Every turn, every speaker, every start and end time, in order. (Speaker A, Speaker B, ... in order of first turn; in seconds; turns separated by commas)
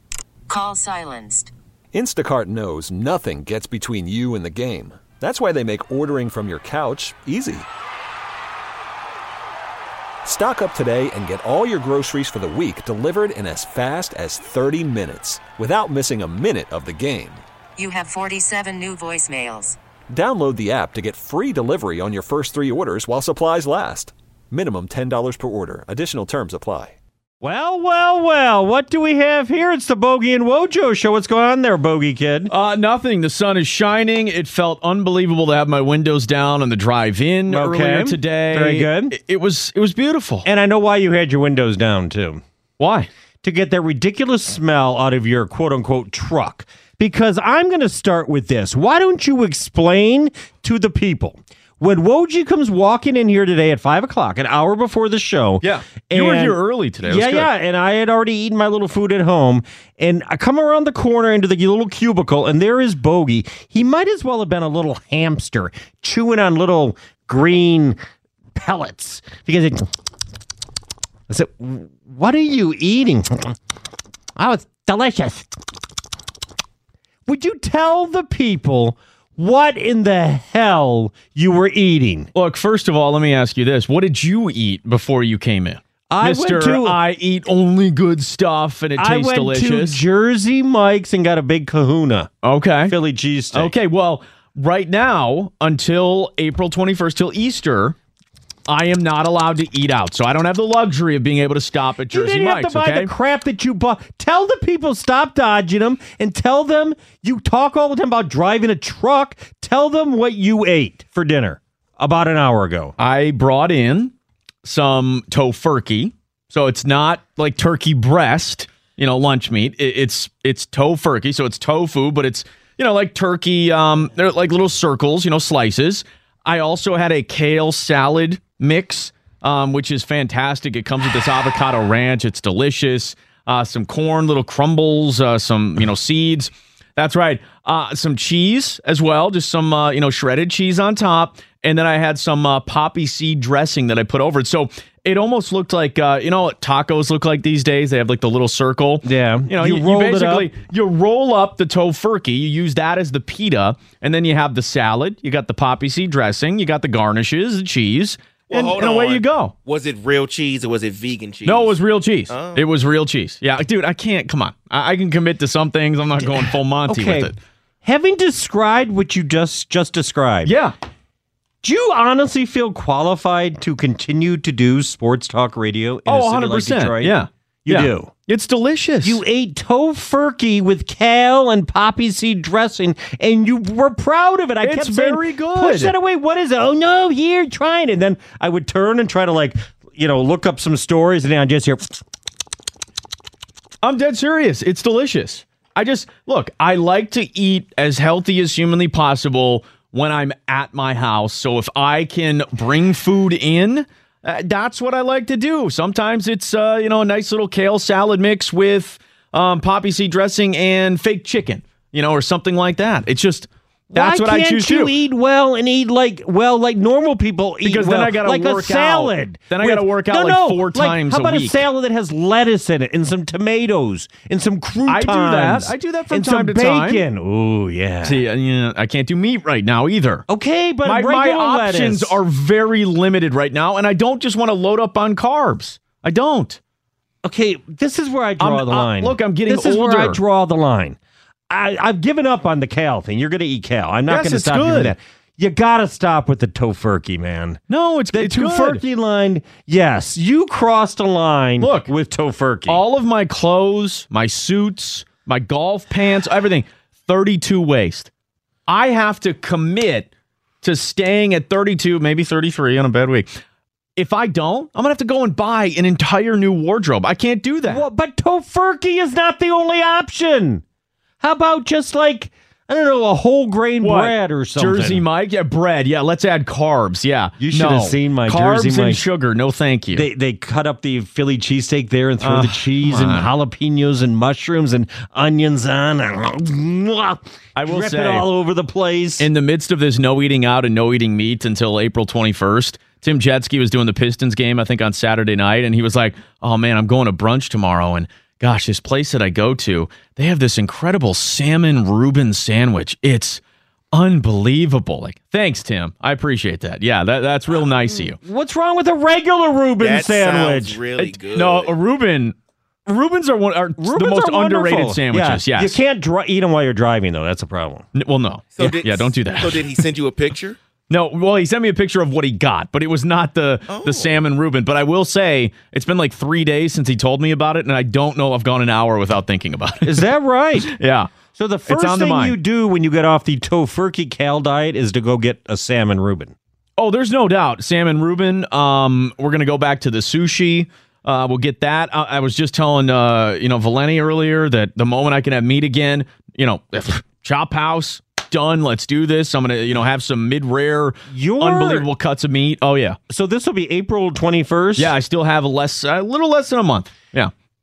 Speaker A: 0.5-1.5, Speaker B: 1.9-7.7, Speaker B: 10.2-17.4, Speaker A: 17.8-19.8, Speaker B: 20.1-27.0, Speaker C: 27.4-32.5, Speaker D: 32.5-40.5, Speaker C: 37.5-39.2, Speaker C: 40.4-42.4, Speaker D: 42.8-43.1, Speaker C: 43.4-68.0, Speaker D: 55.6-57.5, Speaker C: 68.5-69.9, Speaker C: 71.3-73.5, Speaker C: 74.4-75.6, Speaker C: 77.3-82.3, Speaker D: 82.3-90.0, Speaker C: 86.1-87.0, Speaker C: 89.0-92.3, Speaker D: 92.4-92.9, Speaker C: 92.8-93.7, Speaker D: 93.5-98.0, Speaker D: 98.7-103.1, Speaker C: 102.1-113.0, Speaker D: 113.0-159.5, Speaker C: 149.0-150.5, Speaker E: 158.5-161.7, Speaker D: 161.4-167.4, Speaker E: 162.3-162.6, Speaker C: 166.4-167.3, Speaker C: 167.8-170.6, Speaker D: 170.4-170.7, Speaker C: 171.6-178.1, Speaker D: 176.1-179.2, Speaker C: 179.0-191.9, Speaker D: 184.6-185.9, Speaker D: 193.8-215.0, Speaker C: 213.9-228.2, Speaker D: 217.6-221.7, Speaker D: 224.9-227.0, Speaker D: 228.0-230.2, Speaker C: 230.3-232.2, Speaker D: 230.8-236.6, Speaker C: 237.2-241.0, Speaker D: 238.4-240.2, Speaker C: 241.5-247.6, Speaker D: 244.1-244.9, Speaker D: 247.7-248.8, Speaker C: 248.1-252.8, Speaker D: 251.6-251.9, Speaker D: 252.7-258.1, Speaker D: 258.7-260.1, Speaker D: 260.6-263.3, Speaker D: 264.0-267.9, Speaker C: 267.6-270.6, Speaker C: 271.2-275.1, Speaker D: 273.8-280.1, Speaker C: 277.4-279.1, Speaker C: 279.9-289.3, Speaker D: 282.2-283.3, Speaker D: 287.6-288.3, Speaker D: 289.2-303.4, Speaker D: 303.9-308.2, Speaker C: 307.9-310.8, Speaker E: 309.8-311.7, Speaker D: 311.0-312.4, Speaker D: 312.9-315.8, Speaker C: 313.8-317.9, Speaker D: 317.9-319.6, Speaker E: 318.6-320.6, Speaker D: 320.9-331.1, Speaker E: 323.7-324.1, Speaker C: 329.8-330.7, Speaker C: 331.4-336.4, Speaker D: 331.7-332.4, Speaker D: 336.8-353.0, Speaker C: 351.1-351.9, Speaker C: 353.1-354.9, Speaker D: 354.8-357.3